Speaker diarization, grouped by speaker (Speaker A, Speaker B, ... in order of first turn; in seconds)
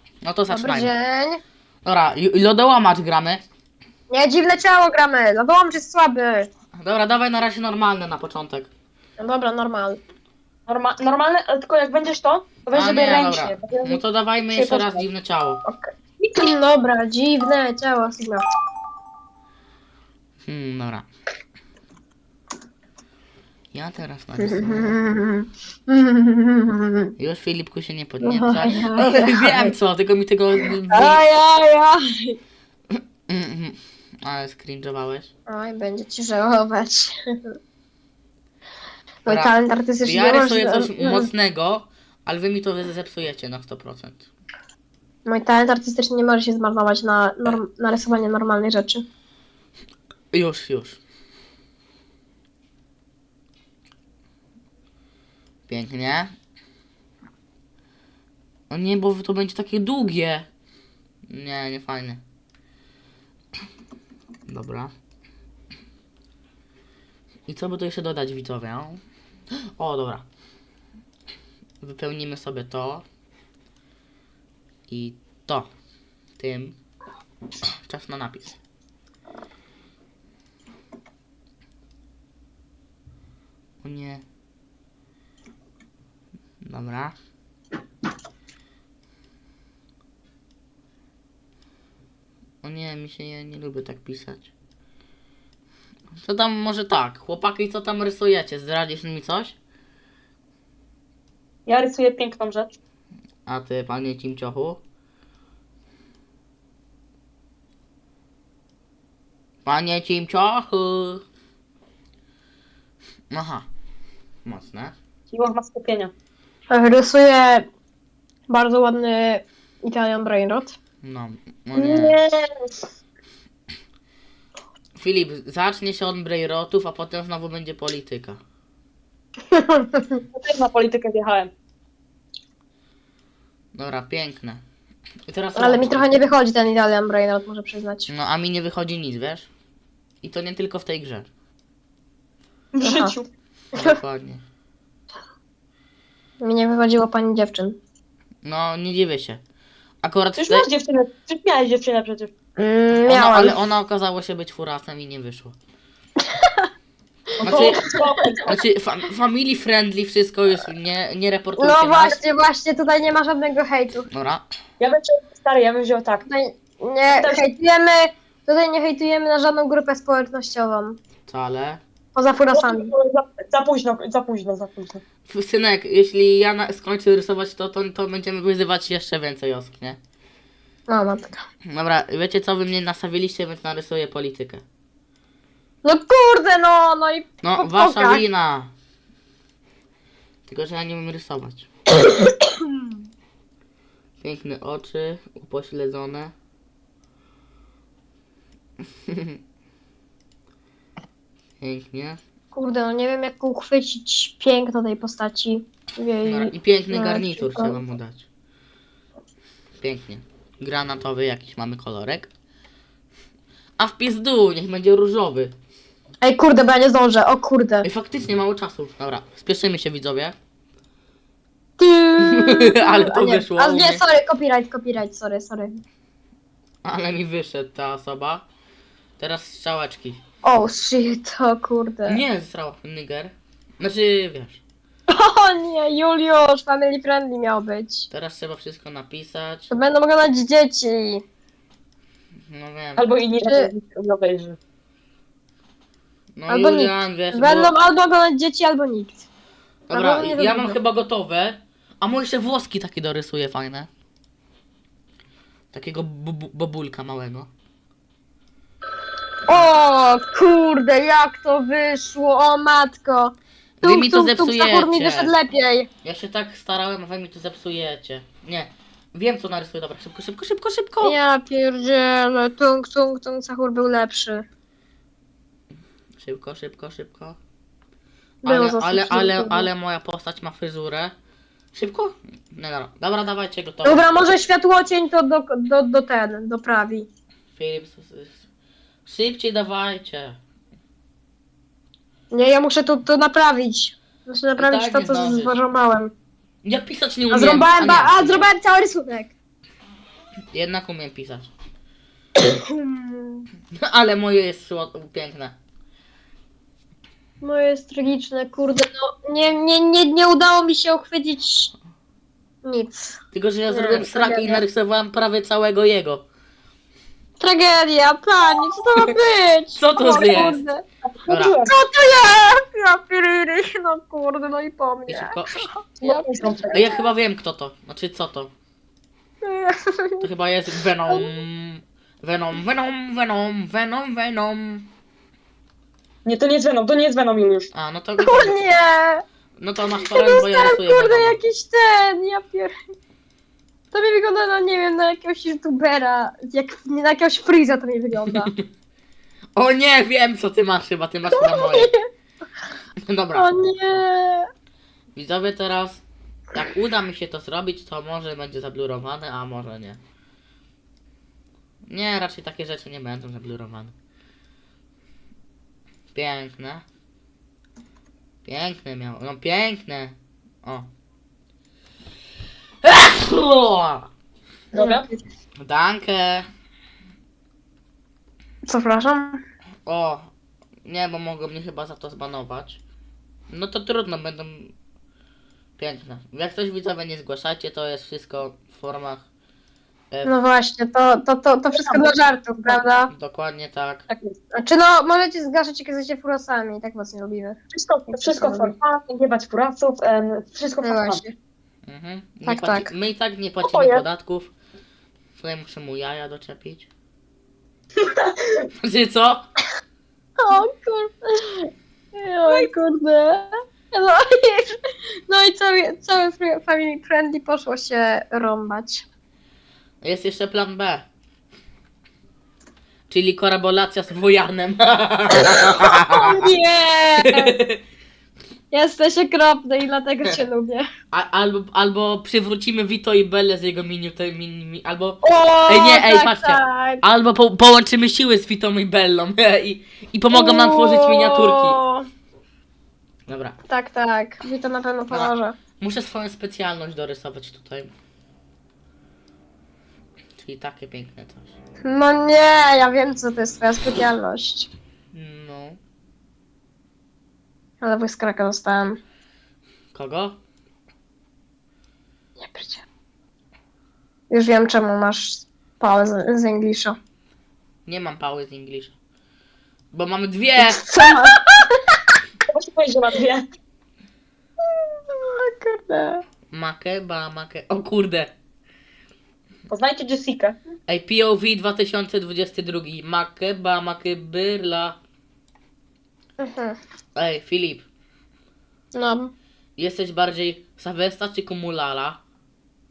Speaker A: 0.2-0.9, 1.8-3.4, 6.8-8.7, 12.7-15.6, 20.4-21.1, 23.7-25.1, 27.2-31.2, 33.3-35.3, 39.3-39.5, 40.0-44.3, 50.3-51.0, 55.7-56.3, 58.7-60.5, 61.3-62.2, 64.5-64.9, 67.5-69.0, 69.8-70.2, 71.8-73.0, 74.9-75.7, 76.4-76.8, 77.8-78.6, 83.8-84.2, 86.6-87.1, 92.6-94.5, 96.2-99.5, 103.5-104.8, 109.6-111.2, 113.3-113.7, 114.4-114.9, 121.0-122.2, 125.0-128.4, 133.7-134.6, 135.3-136.1, 138.1-139.5, 140.2-141.3, 143.7-144.4, 148.4-149.4, 150.0-150.7, 153.0-155.6, 157.4-157.8, 158.4-162.2, 164.1-164.4, 171.3-171.8, 175.3-180.0, 181.7-184.6, 187.4-188.7, 190.4-191.7, 194.2-196.3, 199.1-199.4, 201.6-202.2, 206.2-208.2, 209.8-212.3, 213.8-215.5, 217.8-220.3, 222.2-224.0, 226.8-228.4, 229.2-230.2, 232.1-234.6, 238.1-239.7, 242.5-243.0, 246.3-247.7, 249.9-253.9, 255.7-257.5, 259.5-259.7, 263.8-265.3, 266.0-271.1, 276.2-277.4, 278.4-281.1, 281.7-284.1, 287.5-288.4, 289.0-290.4, 294.6-295.6, 296.6-298.5, 300.5-301.5, 303.7-305.5, 313.3-316.2, 319.8-320.6, 321.3-321.6, 325.1-325.7, 326.7-328.5, 330.2-334.9, 337.7-338.6, 339.6-341.4, 348.3-348.6, 349.6-351.9, 353.1-353.7, 355.1-356.0, 356.5-360.0, 361.9-363.9, 366.1-366.8, 368.4-370.9, 372.8-374.1, 375.6-376.5, 379.9-380.3, 380.8-382.8, 383.5-384.7, 385.8-389.2, 393.1-394.1, 401.9-404.5, 405.4-406.9, 408.8-409.4, 420.0-421.1, 423.1-426.4, 427.2-427.8, 431.1-441.8, 443.3-443.6, 445.1-447.9, 450.4-451.6, 455.1-455.8, 459.9-460.4, 467.9-468.9, 469.9-470.9, 476.5-478.3, 480.9-485.0, 487.1-487.9, 489.8-492.2
Speaker B: 0.5-1.4, 4.1-6.5, 9.2-10.0, 15.6-18.4, 24.4-27.1, 28.2-29.7, 30.6-32.4, 35.5-37.5, 39.2-41.3, 45.2-49.0, 116.7-117.7, 118.5-120.7, 129.5-130.2, 135.6-138.1, 142.8-143.1, 146.4-147.8, 152.6-153.6, 156.2-156.7, 157.5-158.4, 161.6-164.1, 166.3-171.0, 172.1-172.9, 180.9-181.4, 185.8-188.2, 192.2-193.0, 202.5-207.8, 216.2-217.8, 221.8-225.7, 230.4-232.2, 235.1-238.1, 239.7-241.2, 243.4-243.7, 246.5-249.2, 249.9-250.8, 259.5-265.9, 271.0-274.4, 278.4-279.7, 283.8-287.1, 292.3-296.1, 297.3-299.3, 302.4-303.5, 307.4-311.7, 312.6-313.2, 313.7-314.6, 317.4-320.8, 321.6-327.0, 329.4-330.2, 338.2-339.2, 340.0-342.7, 343.9-348.5, 351.3-352.0, 353.4-354.5, 374.7-375.1, 378.7-379.4, 390.2-393.1, 394.5-397.6, 398.1-398.7, 400.8-401.3, 402.4-402.9, 410.4-414.7, 415.3-419.0, 425.8-427.6, 428.7-430.8, 435.2-437.0, 440.3-442.1, 443.7-445.5, 451.8-454.7, 457.8-459.0, 462.4-462.8, 464.3-466.9, 470.6-472.2, 474.7-476.2, 486.4-486.8, 488.9-489.3
Speaker C: 10.7-15.0, 101.7-102.8, 115.3-116.1, 121.7-122.9, 130.3-131.5, 142.7-143.3, 150.4-152.3, 157.4-158.6, 164.8-166.2, 167.1-167.4, 172.5-175.0, 242.9-244.6, 321.1-321.7, 326.0-326.8, 336.2-337.7, 374.7-375.1, 391.7-392.8, 394.1-394.3, 397.7-401.2, 403.6-404.0, 408.0-408.7, 412.5-412.7, 472.5-473.4, 479.7-480.6